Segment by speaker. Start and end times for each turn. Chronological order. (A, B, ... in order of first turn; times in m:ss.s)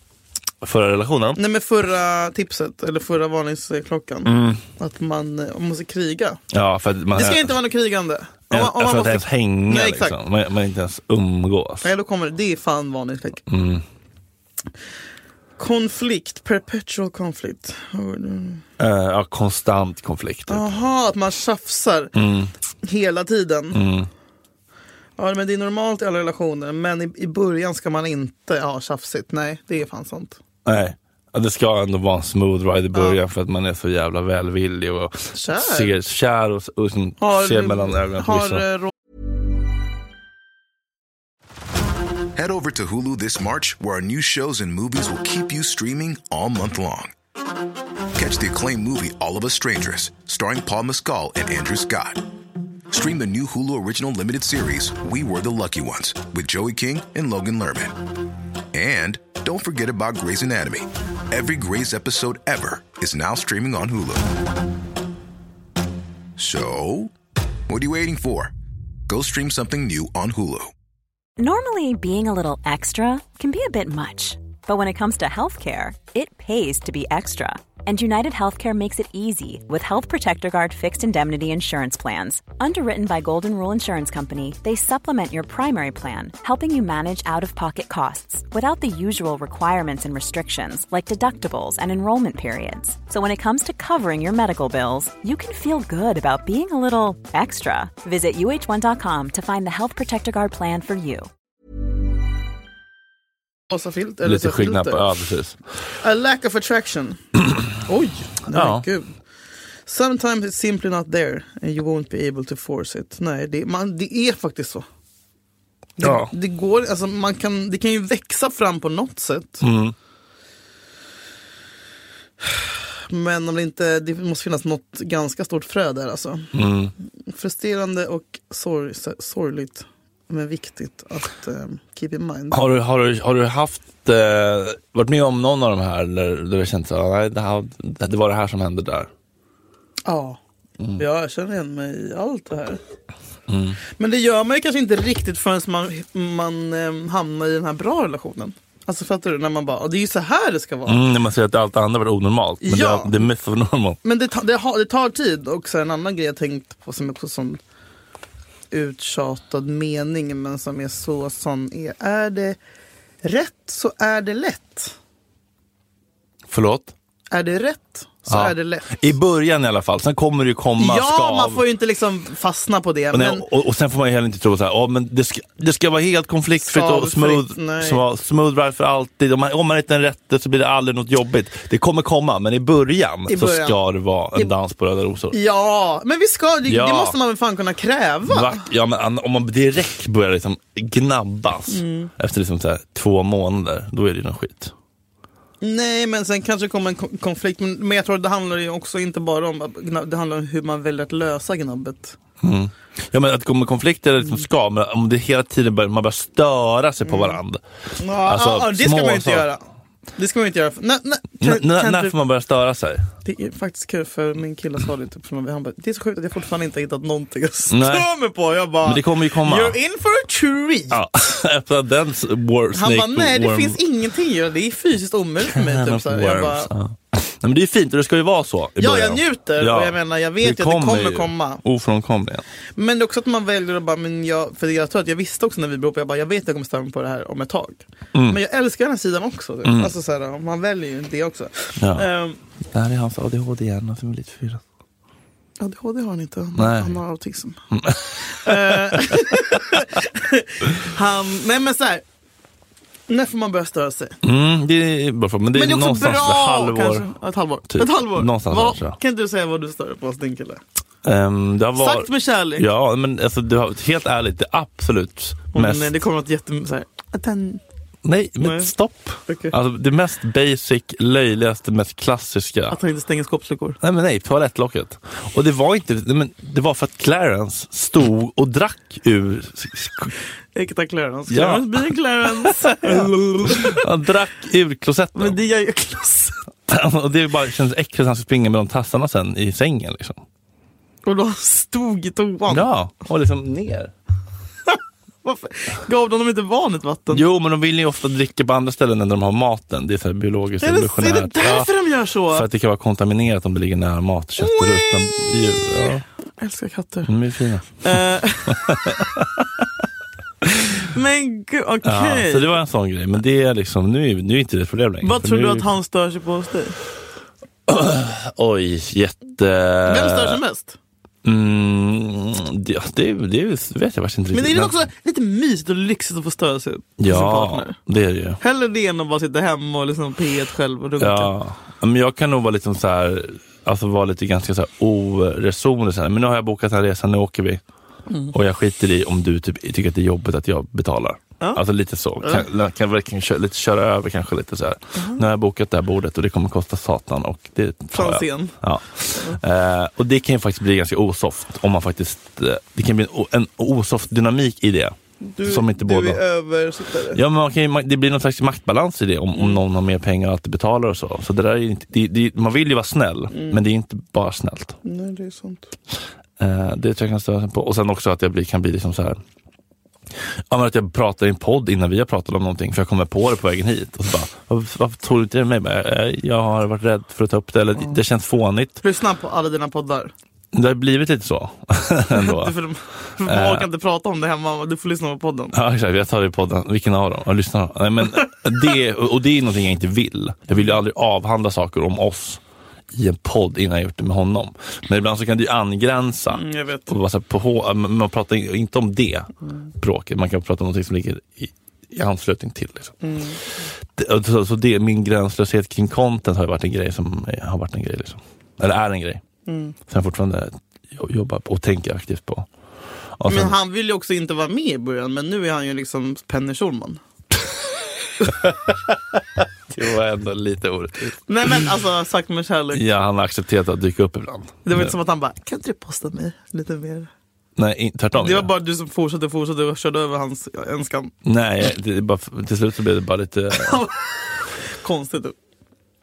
0:00.6-0:01.4 A
0:01.4-0:06.4 B
0:04.2-0:04.6 A
0:06.5-0:07.5 A
0:07.1-0:10.2 B
0:08.5-0:11.9 A
0:11.8-0:13.4 B
0:13.5-0:13.8 A
0:15.6-0:18.6 B
0:18.8-0:20.7 A
0:20.5-0:22.1 B
0:22.1-0:22.5 A
0:22.8-0:23.8 B
0:23.7-0:24.1 A
0:25.2-0:30.4 B
0:30.6-0:38.6 A
0:35.3-0:35.9 B
0:37.2-0:38.9 B
0:42.3-0:47.1 C
0:48.1-0:52.2 C
0:52.9-0:58.0 C
0:58.7-1:04.3 C
1:06.4-1:07.1 C
1:07.7-1:08.5 C
1:09.1-1:10.7 C
1:11.4-1:41.3 D
1:43.7-1:45.1 B
1:44.2-1:45.6 A
1:46.0-1:47.2 B
1:47.8-1:49.1 B
1:48.5-1:48.8 A
1:49.8-1:54.8 B
1:56.0-1:59.6 B
1:56.0-1:56.3 A
1:59.6-1:59.9 A
2:02.4-2:06.5 B
2:06.5-2:06.9 A
2:07.3-2:12.6 B
2:12.5-2:19.1 A
2:20.0-2:20.4 B
2:21.0-2:22.8 B
2:23.5-2:23.8 A
2:23.9-2:31.0 B
2:30.9-2:34.0 A
2:32.6-2:33.2 B
2:34.0-2:37.6 B
2:38.7-2:42.6 B
2:43.2-2:44.9 B
2:46.5-2:46.9 A
2:47.3-2:49.1 B
2:48.3-2:51.6 A
2:50.8-2:53.4 B
2:53.1-3:05.4 A
2:56.6-2:58.0 B
3:03.3-3:03.8 B
3:05.3-3:08.6 B
3:06.7-3:07.2 A
3:08.3-3:14.7 A
3:11.7-3:12.1 B
3:15.6-3:22.2 B
3:22.4-3:27.6 A
3:27.0-3:27.4 B
3:28.0-3:29.6 B
3:28.1-3:29.4 A
3:30.2-3:32.1 B
3:31.4-3:33.1 A
3:33.2-3:41.0 B
3:37.7-3:38.1 A
3:38.8-3:39.8 A
3:40.9-3:43.8 A
3:42.7-3:46.7 B
3:45.4-3:52.4 A
3:48.8-3:51.6 B
3:52.8-4:02.4 B
3:58.1-3:58.4 A
3:59.6-3:59.9 A
4:01.8-4:02.1 A
4:02.7-4:04.6 A
4:05.6-4:07.6 B
4:06.6-4:07.0 A
4:07.7-4:09.1 A
4:08.2-4:12.0 B
4:13.1-4:14.2 B
4:14.2-4:17.0 A
4:15.5-4:20.6 B
4:17.7-4:19.0 A
4:21.0-4:26.0 A
4:21.8-4:22.6 B
4:25.5-4:27.6 B
4:28.0-4:32.8 A
4:28.4-4:28.7 B
4:29.3-4:29.5 B
4:32.7-4:33.8 B
4:33.8-4:40.1 A
4:40.5-4:43.8 B
4:41.3-4:45.4 A
4:45.1-4:46.4 B
4:46.7-4:50.2 A
4:51.0-4:52.7 B
4:52.5-4:53.9 A
4:54.7-4:57.2 B
4:57.1-5:01.7 A
5:00.6-5:02.5 B
5:02.3-5:06.0 A
5:04.4-5:07.1 B
5:07.1-5:07.9 A
5:07.8-5:09.0 B
5:08.5-5:09.3 A
5:10.8-5:12.6 B
5:11.8-5:15.7 A
5:15.0-5:16.8 B
5:17.7-5:20.4 A
5:19.8-5:20.8 B
5:21.2-5:24.7 A
5:24.3-5:27.8 B
5:27.0-5:28.4 A
5:28.4-5:31.3 B
5:31.0-5:37.6 A
5:38.1-5:38.3 B
5:38.3-5:56.2 A
5:42.2-5:42.4 B
5:45.0-5:45.2 B
5:47.9-5:48.6 B
5:55.2-5:57.2 B
5:57.1-6:04.8 A
5:59.3-5:59.6 B
6:03.3-6:03.6 B
6:04.8-6:05.7 B
6:06.4-6:09.2 A
6:10.5-6:18.8 A
6:18.8-6:20.1 B
6:20.5-6:22.5 A
6:22.1-6:25.5 B
6:23.2-6:23.7 A
6:25.5-6:32.4 A
6:32.9-6:43.0 A
6:36.3-6:36.9 B
6:43.0-6:43.4 B
6:44.0-6:49.2 A
6:49.5-6:49.8 B
6:49.9-6:52.5 A
6:53.2-6:53.6 A
6:53.3-6:57.0 B
6:58.3-6:58.9 A
6:59.7-7:01.7 A
7:01.3-7:02.8 B
7:02.7-7:04.9 A
7:04.6-7:07.1 B
7:07.6-7:08.5 A
7:08.1-7:11.1 B
7:11.2-7:13.8 A
7:13.5-7:14.2 B
7:14.7-7:15.3 B